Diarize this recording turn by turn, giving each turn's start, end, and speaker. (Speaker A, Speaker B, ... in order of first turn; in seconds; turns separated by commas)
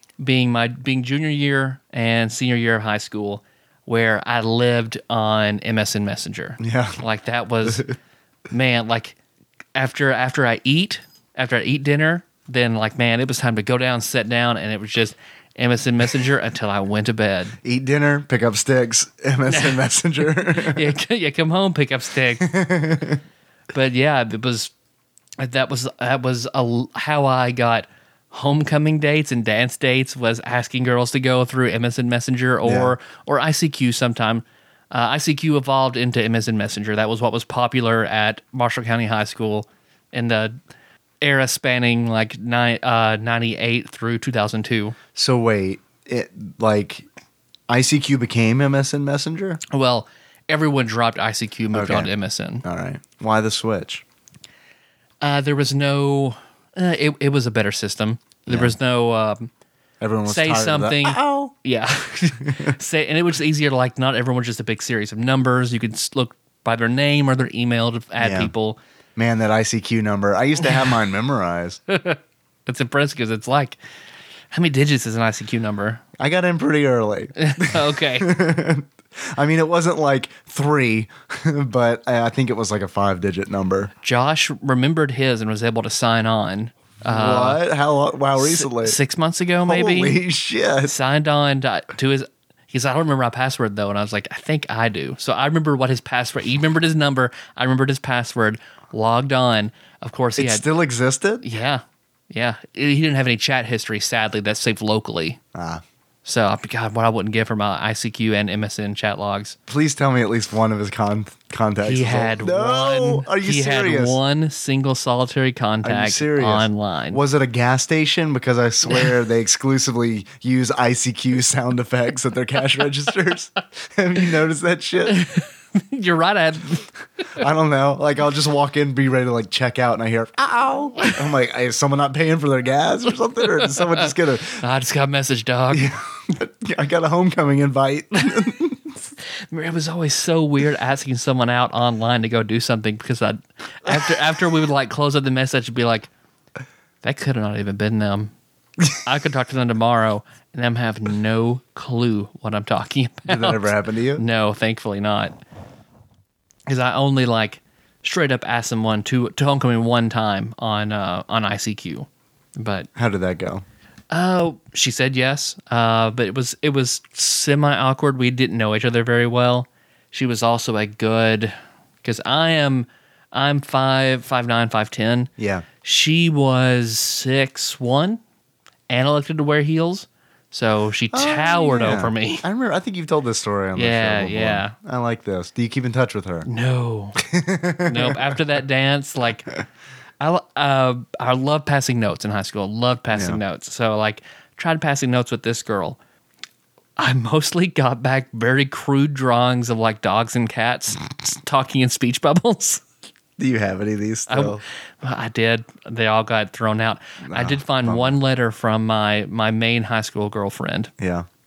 Speaker A: 0.2-7.9, Speaker B: 6.6-7.0, Speaker B: 7.6-7.9, Speaker A: 8.5-9.2, Speaker A: 9.7-17.6, Speaker B: 17.6-20.9, Speaker A: 19.5-22.5, Speaker B: 22.4-23.2, Speaker A: 23.7-24.7, Speaker A: 25.4-40.5, Speaker B: 32.6-32.9, Speaker A: 41.2-45.0, Speaker B: 45.1-47.0, Speaker B: 47.7-49.6, Speaker A: 49.7-52.6, Speaker B: 51.7-52.1, Speaker B: 52.6-54.0, Speaker A: 55.2-59.5, Speaker B: 58.5-58.7, Speaker B: 60.0-61.5, Speaker A: 60.2-68.8, Speaker B: 68.2-68.5, Speaker B: 69.2-71.8, Speaker A: 71.9-73.8, Speaker A: 74.5-76.0, Speaker B: 76.2-83.9, Speaker A: 77.4-78.3, Speaker A: 84.0-87.6, Speaker B: 87.0-89.0, Speaker A: 88.4-90.2, Speaker B: 89.6-90.9, Speaker A: 90.8-100.7, Speaker B: 100.4-101.4, Speaker A: 101.4-105.4, Speaker B: 105.5-105.8, Speaker A: 106.2-109.6, Speaker B: 109.7-114.2, Speaker A: 111.8-117.2, Speaker B: 115.8-125.2, Speaker A: 125.0-126.9, Speaker B: 127.4-134.6, Speaker A: 133.5-135.9, Speaker B: 135.7-138.9, Speaker A: 139.5-146.1, Speaker A: 147.0-148.3, Speaker A: 148.9-155.3, Speaker B: 153.3-154.2, Speaker A: 156.7-162.9, Speaker B: 162.9-163.6, Speaker A: 164.1-175.3, Speaker B: 175.4-175.7, Speaker A: 175.8-178.2, Speaker A: 178.9-182.4, Speaker B: 181.1-186.5, Speaker A: 183.8-184.7, Speaker A: 186.4-187.2, Speaker B: 187.2-188.2, Speaker A: 187.8-189.5, Speaker A: 190.2-196.0, Speaker B: 193.1-193.4, Speaker A: 197.0-202.8, Speaker B: 203.4-204.6, Speaker A: 204.3-210.9, Speaker B: 207.3-208.2, Speaker B: 211.0-211.3